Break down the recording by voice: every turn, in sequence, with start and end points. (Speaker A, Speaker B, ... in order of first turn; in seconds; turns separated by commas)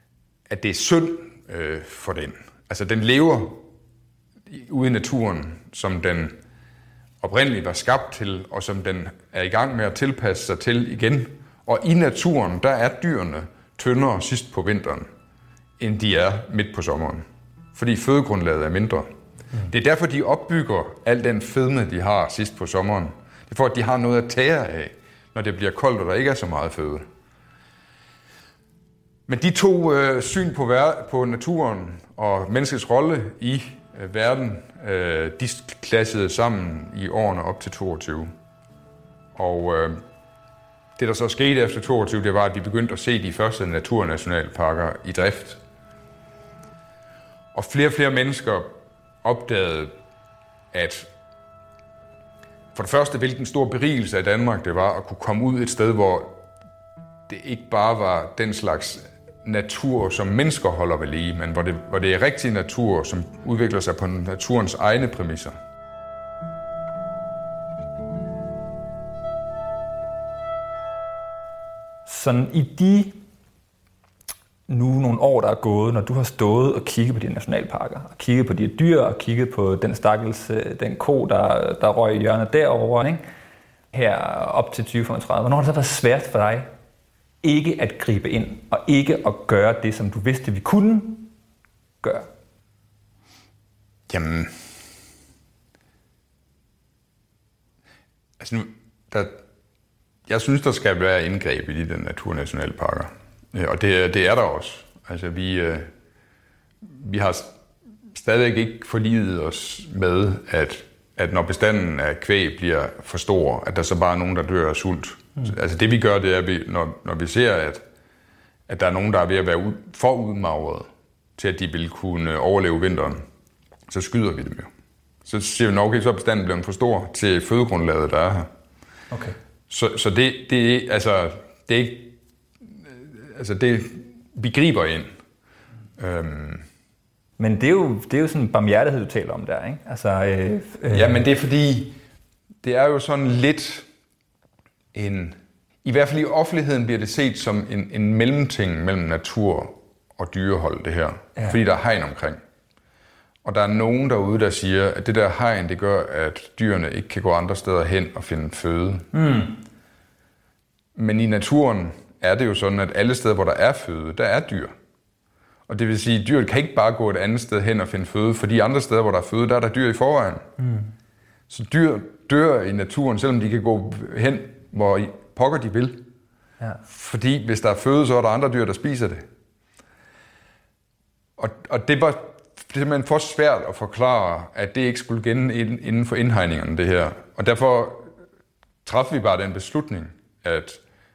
Speaker A: 0.5-3.6, Speaker A: 4.5-6.4, Speaker A: 7.2-15.1, Speaker A: 15.8-19.1, Speaker A: 19.6-27.1, Speaker A: 29.3-38.3, Speaker A: 39.4-40.0, Speaker A: 41.0-45.6, Speaker A: 47.5-50.0, Speaker A: 50.7-51.1, Speaker A: 52.7-56.4, Speaker A: 57.3-65.6, Speaker B: 72.1-73.2, Speaker B: 74.7-83.2, Speaker B: 83.9-86.7, Speaker B: 87.4-91.3, Speaker B: 92.0-92.3, Speaker A: 94.1-94.6, Speaker A: 98.4-99.4, Speaker A: 100.3-105.9, Speaker A: 106.8-107.6, Speaker A: 108.1-117.8, Speaker A: 118.7-123.2, Speaker A: 123.9-124.7, Speaker A: 125.2-128.5, Speaker B: 129.1-129.4, Speaker A: 129.7-135.1, Speaker A: 136.0-136.7, Speaker B: 137.4-141.2, Speaker A: 140.9-142.0, Speaker A: 142.6-143.9, Speaker A: 144.9-152.4, Speaker A: 153.4-159.2, Speaker B: 159.1-159.5, Speaker A: 161.0-164.8, Speaker A: 165.7-170.5, Speaker B: 170.6-170.9, Speaker A: 171.5-176.0, Speaker A: 176.9-179.2, Speaker A: 181.4-188.1, Speaker A: 188.8-190.8